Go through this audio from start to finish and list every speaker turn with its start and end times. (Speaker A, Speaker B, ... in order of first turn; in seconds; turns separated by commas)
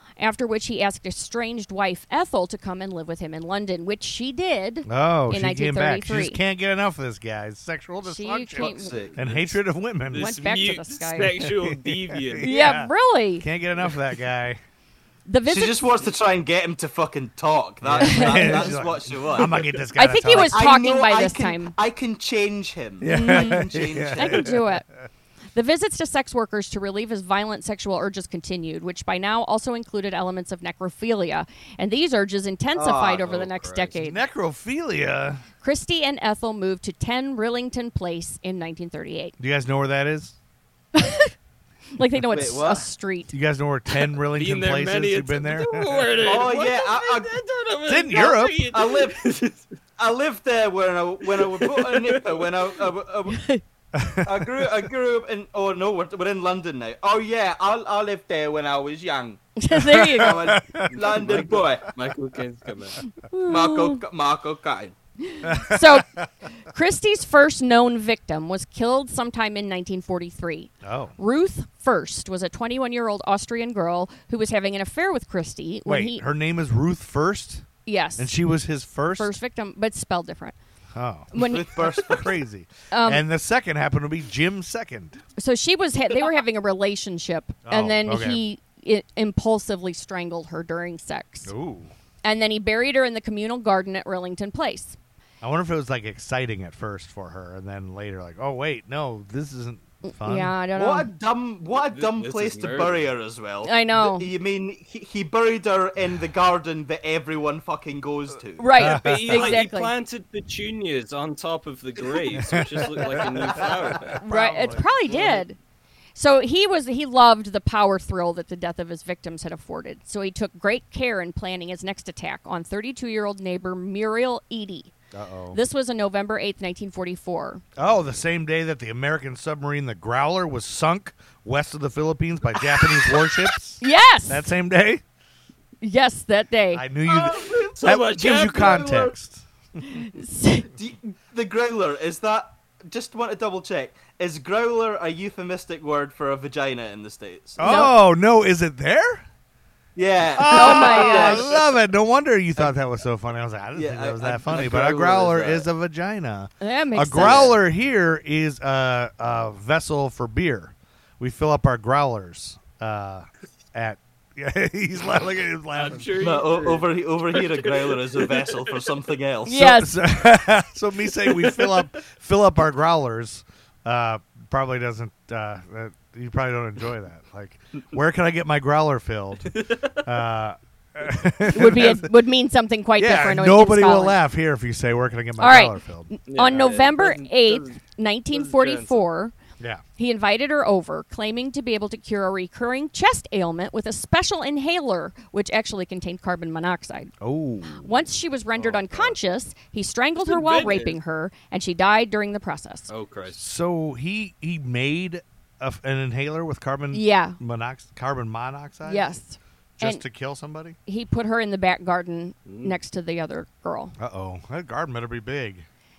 Speaker A: 0.2-6.4, Speaker B: 4.9-10.4, Speaker A: 8.0-8.9, Speaker C: 8.6-9.5, Speaker D: 10.1-12.6, Speaker A: 10.2-11.3, Speaker B: 11.2-14.6, Speaker A: 12.4-13.4, Speaker A: 15.3-15.9, Speaker C: 15.5-19.6, Speaker B: 17.8-20.6, Speaker A: 18.0-18.7, Speaker A: 20.0-21.7, Speaker C: 20.3-24.6, Speaker B: 23.0-24.7, Speaker A: 23.1-24.9, Speaker A: 25.5-34.2, Speaker C: 32.7-33.5, Speaker D: 33.3-33.9, Speaker B: 34.0-35.4, Speaker A: 35.6-39.3, Speaker B: 39.4-40.4, Speaker A: 41.0-41.3, Speaker A: 42.0-43.3, Speaker C: 42.3-42.9, Speaker B: 43.3-46.1, Speaker D: 44.3-49.6, Speaker C: 46.2-47.4, Speaker B: 47.9-48.7, Speaker C: 48.1-53.5, Speaker D: 51.2-52.7, Speaker A: 53.3-53.6, Speaker B: 53.9-54.6, Speaker C: 54.2-59.4, Speaker A: 59.6-60.4, Speaker B: 59.7-61.6, Speaker C: 60.1-61.9, Speaker D: 60.9-63.0, Speaker A: 63.2-64.0, Speaker C: 63.5-65.0, Speaker A: 65.3-66.1, Speaker B: 65.4-66.3, Speaker A: 66.7-76.2, Speaker B: 70.8-71.2, Speaker B: 75.9-77.7, Speaker A: 77.9-78.3, Speaker B: 78.2-79.3, Speaker A: 79.2-80.6, Speaker B: 80.9-81.3, Speaker A: 81.3-81.7, Speaker C: 81.3-82.3, Speaker B: 81.9-85.2, Speaker A: 82.9-83.2, Speaker A: 85.4-91.5, Speaker B: 87.7-88.4, Speaker B: 91.5-91.9, Speaker A: 92.2-95.0, Speaker B: 95.4-100.6, Speaker A: 100.0-101.1, Speaker C: 100.7-108.7, Speaker D: 101.7-103.1, Speaker A: 103.6-104.3, Speaker A: 108.6-109.9, Speaker B: 108.8-109.6, Speaker D: 108.8-114.2, Speaker B: 112.4-114.9, Speaker C: 113.1-113.7, Speaker A: 114.2-115.6, Speaker D: 115.1-115.4, Speaker A: 116.2-124.9, Speaker B: 125.1-125.6, Speaker A: 125.5-127.6, Speaker B: 127.8-135.0, Speaker A: 133.8-134.5, Speaker A: 135.8-136.9, Speaker B: 136.7-140.0, Speaker C: 137.1-139.1, Speaker D: 137.5-138.9, Speaker A: 139.8-140.7, Speaker C: 140.7-147.9, Speaker B: 147.6-149.2, Speaker A: 147.6-147.9, Speaker C: 150.0-151.6, Speaker B: 150.3-166.1, Speaker A: 150.5-151.5, Speaker C: 153.8-155.7, Speaker A: 156.6-157.6, Speaker C: 157.2-157.5, Speaker D: 165.7-168.9, Speaker C: 166.2-169.6, Speaker A: 169.4-169.9, Speaker B: 169.5-182.1, Speaker D: 171.3-171.9, Speaker D: 179.5-180.0, Speaker A: 181.5-184.2, Speaker B: 183.0-186.1, Speaker A: 185.4-189.3, Speaker D: 186.3-187.8, Speaker D: 188.3-189.1, Speaker A: 190.0-197.1, Speaker B: 197.2-198.0, Speaker A: 197.8-202.9, Speaker D: 198.6-199.2, Speaker D: 200.2-201.0, Speaker D: 202.9-203.4, Speaker B: 203.3-209.2, Speaker A: 206.9-207.4, Speaker A: 208.9-210.0, Speaker B: 209.8-210.8, Speaker A: 210.9-213.9, Speaker D: 212.5-212.8, Speaker B: 214.0-215.7